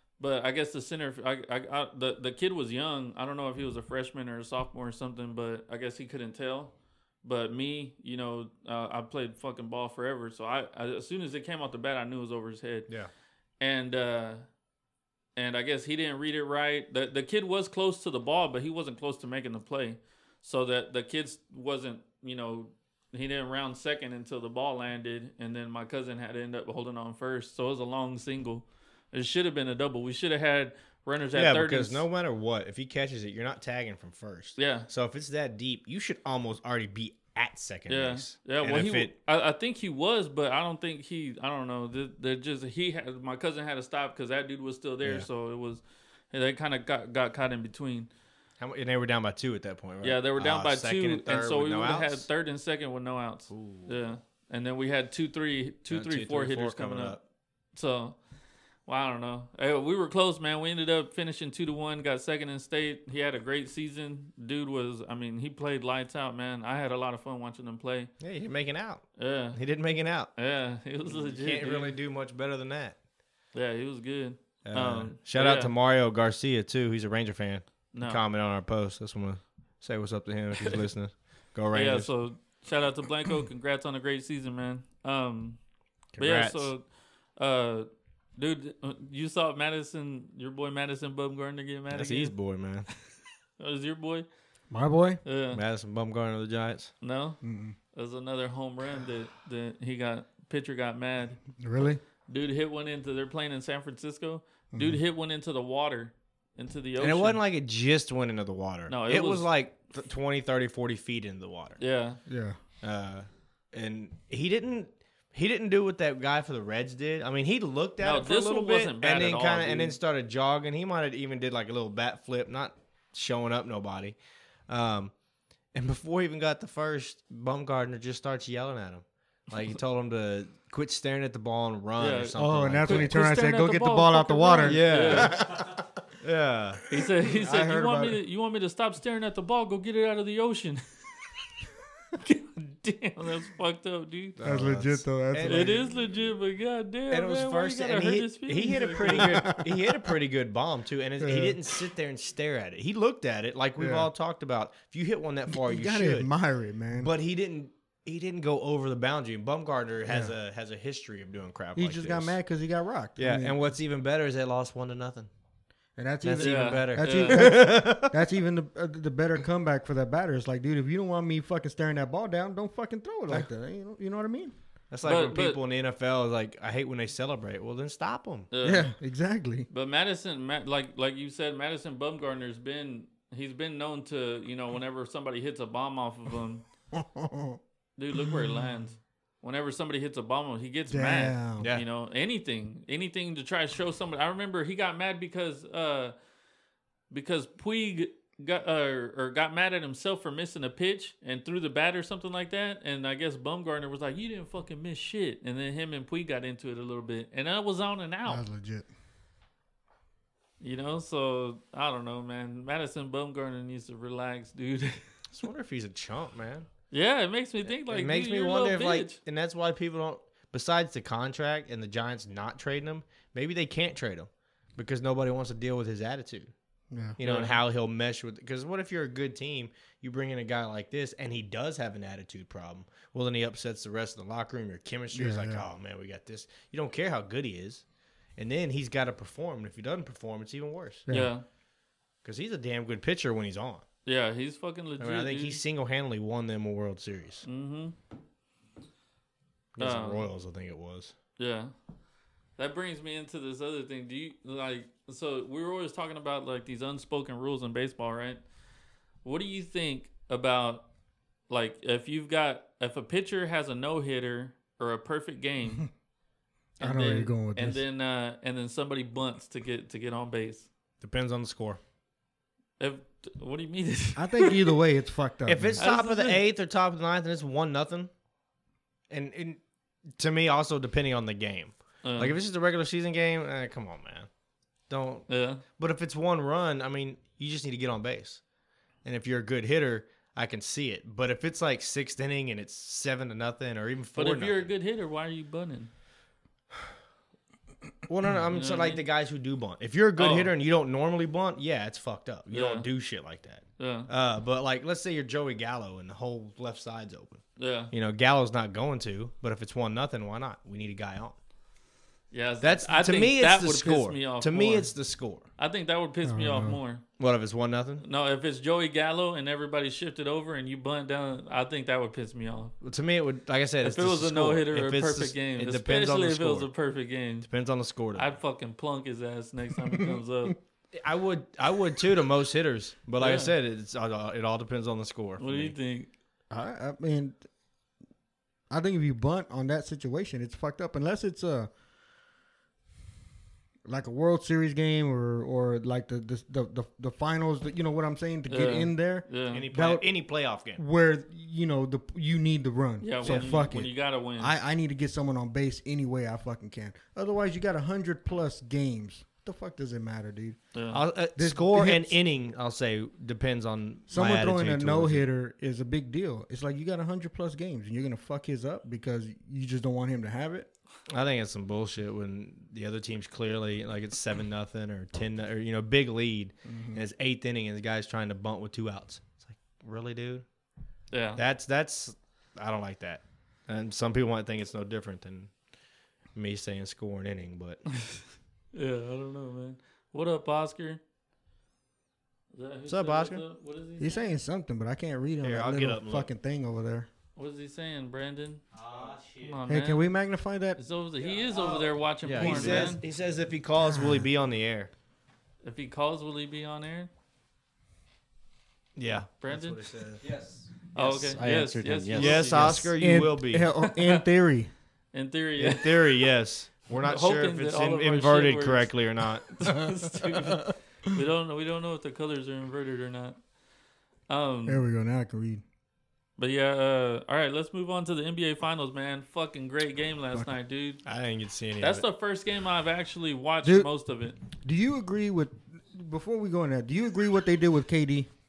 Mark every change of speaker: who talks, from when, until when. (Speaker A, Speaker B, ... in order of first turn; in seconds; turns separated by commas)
Speaker A: 0.2-12.9, Speaker A: 13.6-14.5, Speaker A: 15.4-32.0, Speaker B: 31.3-39.1, Speaker A: 34.6-34.9, Speaker A: 37.9-48.1, Speaker B: 45.0-45.3, Speaker B: 48.6-52.3, Speaker A: 50.0-57.2, Speaker B: 53.5-54.0, Speaker B: 55.9-57.2, Speaker A: 57.8-58.2, Speaker A: 58.9-68.1, Speaker B: 68.2-70.3, Speaker A: 69.2-69.6, Speaker A: 70.3-71.9, Speaker B: 71.1-73.0, Speaker A: 73.5-75.7, Speaker B: 74.7-82.1, Speaker A: 77.9-78.2, Speaker A: 81.7-85.6, Speaker B: 86.1-86.7, Speaker A: 86.2-86.8, Speaker A: 87.4-92.3, Speaker B: 91.9-92.9, Speaker A: 93.6-94.3, Speaker C: 94.7-95.2, Speaker A: 95.2-95.6, Speaker B: 95.5-96.9, Speaker A: 97.0-97.4, Speaker C: 97.4-97.8, Speaker A: 97.9-101.4, Speaker C: 101.6-102.0, Speaker A: 102.3-107.4, Speaker C: 104.7-105.0, Speaker B: 107.0-111.8, Speaker A: 108.9-109.5, Speaker A: 111.8-112.2, Speaker C: 112.3-112.6, Speaker B: 112.8-124.2, Speaker A: 118.0-120.0, Speaker B: 124.7-125.2, Speaker B: 125.7-133.1, Speaker A: 132.0-135.4, Speaker C: 132.4-135.3, Speaker B: 134.6-136.8, Speaker A: 136.9-141.1, Speaker C: 137.3-138.2, Speaker A: 142.2-144.4, Speaker B: 144.4-145.9, Speaker C: 144.4-145.8, Speaker A: 145.4-149.5, Speaker B: 147.1-156.3, Speaker C: 149.0-149.9, Speaker C: 151.2-151.6, Speaker C: 153.8-154.1, Speaker C: 155.5-157.1, Speaker B: 157.0-162.4, Speaker C: 160.1-160.3, Speaker C: 161.8-163.6, Speaker B: 163.2-165.3, Speaker C: 166.0-174.5, Speaker B: 166.2-168.2, Speaker A: 166.4-167.5, Speaker B: 174.9-178.5, Speaker A: 175.0-175.6, Speaker A: 178.5-178.9, Speaker C: 178.6-179.7, Speaker A: 179.7-186.7, Speaker C: 186.9-187.6, Speaker A: 188.0-196.2, Speaker C: 188.1-188.6, Speaker C: 190.9-191.7, Speaker B: 191.6-191.8, Speaker A: 197.1-208.4, Speaker C: 208.2-208.9, Speaker A: 210.6-215.0, Speaker B: 215.3-216.7, Speaker A: 216.9-219.2, Speaker B: 217.9-226.5, Speaker C: 226.9-227.2, Speaker B: 227.2-237.8, Speaker A: 227.2-227.6, Speaker C: 235.1-235.7, Speaker B: 238.4-241.1, Speaker C: 241.1-241.3, Speaker A: 241.1-241.4, Speaker B: 242.2-243.8, Speaker A: 244.1-245.6, Speaker B: 245.0-247.5, Speaker A: 247.4-247.9, Speaker B: 249.8-251.2, Speaker A: 249.8-250.2, Speaker A: 251.4-251.7, Speaker A: 252.6-258.4, Speaker A: 259.2-260.9, Speaker A: 261.5-265.9, Speaker C: 266.8-267.8, Speaker A: 266.8-270.7, Speaker B: 271.0-271.8, Speaker A: 272.8-274.7, Speaker C: 274.2-275.9, Speaker B: 275.5-278.1, Speaker A: 275.8-276.4, Speaker B: 279.1-279.6, Speaker B: 280.2-284.3, Speaker A: 282.0-282.4, Speaker B: 284.9-288.4, Speaker A: 285.3-285.6, Speaker B: 289.1-294.7, Speaker A: 294.2-295.9, Speaker B: 298.1-311.4, Speaker A: 298.5-299.0, Speaker A: 300.2-300.5, Speaker A: 302.5-302.9, Speaker A: 303.8-304.1, Speaker A: 307.6-307.9, Speaker A: 312.3-314.9, Speaker B: 312.6-315.5, Speaker A: 315.6-317.0, Speaker C: 316.2-316.8, Speaker B: 317.2-318.1, Speaker A: 318.0-322.7, Speaker B: 322.8-326.7, Speaker A: 323.8-327.5, Speaker B: 327.4-328.3, Speaker A: 328.1-330.6, Speaker C: 329.9-330.1, Speaker B: 330.9-335.7, Speaker A: 333.2-333.5, Speaker A: 335.4-336.1, Speaker C: 336.5-337.4, Speaker C: 338.7-341.7, Speaker C: 343.9-350.1, Speaker A: 348.5-349.6, Speaker B: 349.5-350.8, Speaker C: 350.8-360.6, Speaker A: 353.0-354.5, Speaker A: 360.8-361.0, Speaker B: 360.9-365.2, Speaker C: 361.4-362.2, Speaker C: 364.1-370.7, Speaker B: 371.1-380.5, Speaker C: 376.7-377.0, Speaker A: 381.1-381.4, Speaker B: 381.4-385.5, Speaker B: 386.4-387.8, Speaker A: 388.7-391.0, Speaker A: 392.5-394.2, Speaker B: 392.9-393.4, Speaker C: 394.0-397.1, Speaker B: 395.4-396.3, Speaker A: 397.4-398.6, Speaker B: 398.8-399.5, Speaker D: 398.8-399.3, Speaker A: 399.4-400.1, Speaker C: 399.7-400.8, Speaker A: 400.8-403.0, Speaker D: 401.3-403.0, Speaker B: 402.3-404.9, Speaker C: 403.8-404.3, Speaker A: 405.6-407.1, Speaker B: 409.0-410.2, Speaker A: 409.4-409.8, Speaker D: 410.2-412.9, Speaker A: 410.9-412.9, Speaker B: 412.1-413.7, Speaker C: 413.0-414.7, Speaker A: 413.8-414.2, Speaker A: 415.1-416.3, Speaker B: 415.6-419.7, Speaker A: 416.9-418.9, Speaker A: 419.5-423.4, Speaker C: 420.2-420.7, Speaker A: 424.3-424.8, Speaker C: 424.7-425.6, Speaker A: 426.4-431.0, Speaker B: 431.1-432.1, Speaker A: 431.8-434.4, Speaker C: 433.6-433.9, Speaker C: 434.6-438.3